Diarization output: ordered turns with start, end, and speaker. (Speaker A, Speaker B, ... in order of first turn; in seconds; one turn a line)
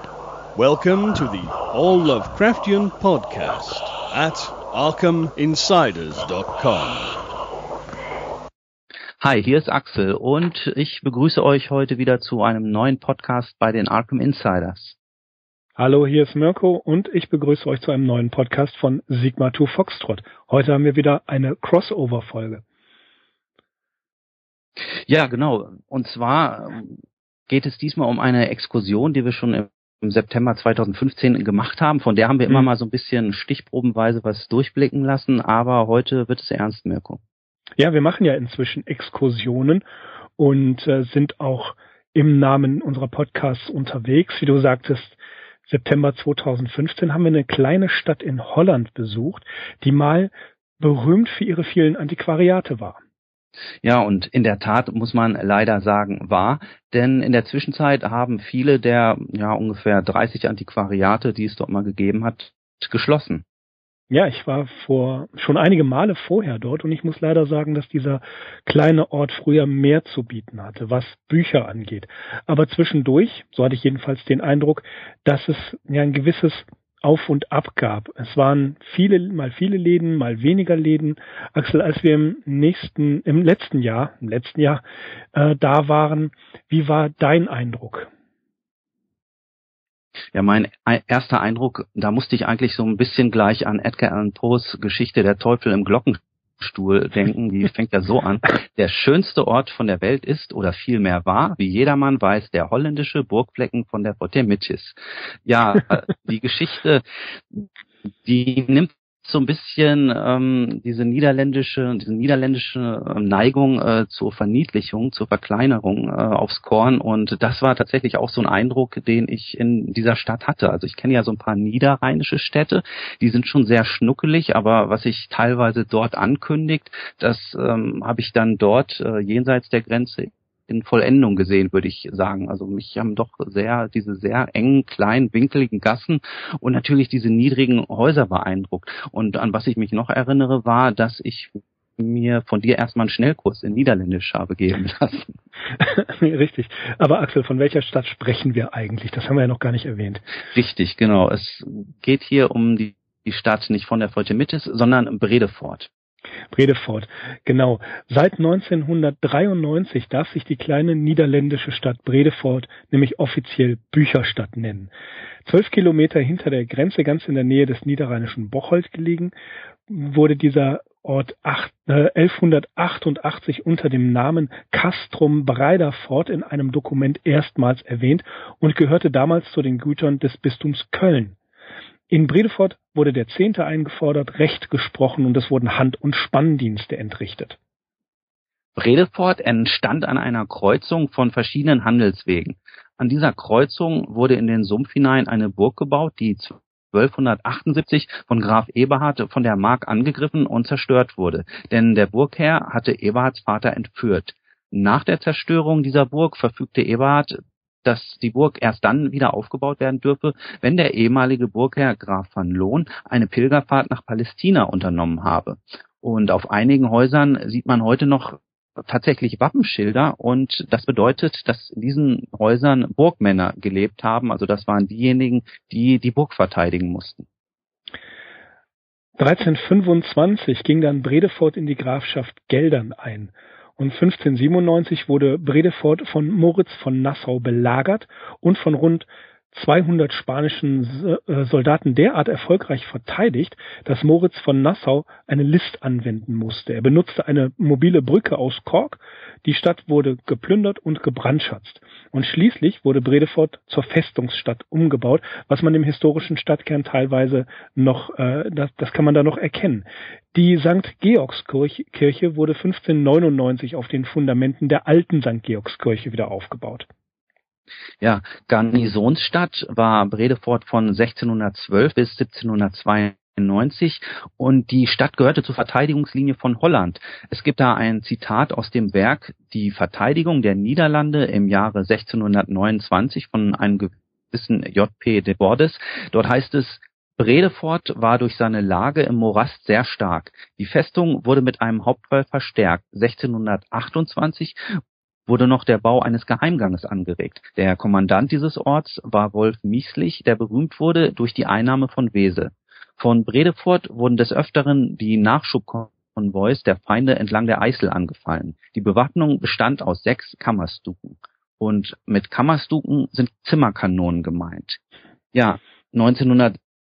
Speaker A: 0.5-7.2
Speaker B: 9.2-15.0
Speaker C: 15.8-22.6
Speaker B: 25.1-37.2
Speaker C: 37.8-39.8
Speaker C: 40.4-45.2
Speaker C: 45.7-53.0
Speaker B: 53.8-63.4
Speaker C: 64.1-88.1
Speaker B: 90.3-107.7
Speaker B: 108.2-145.3
Speaker C: 145.8-150.2
Speaker B: 150.5-155.9
Speaker C: 156.5-164.9
Speaker C: 165.4-169.3
Speaker C: 169.9-181.3
Speaker C: 182.1-187.6
Speaker B: 188.8-227.3
Speaker C: 229.2-266.9
Speaker B: 268.0-294.6
Speaker B: 295.3-314.8
Speaker B: 315.3-316.6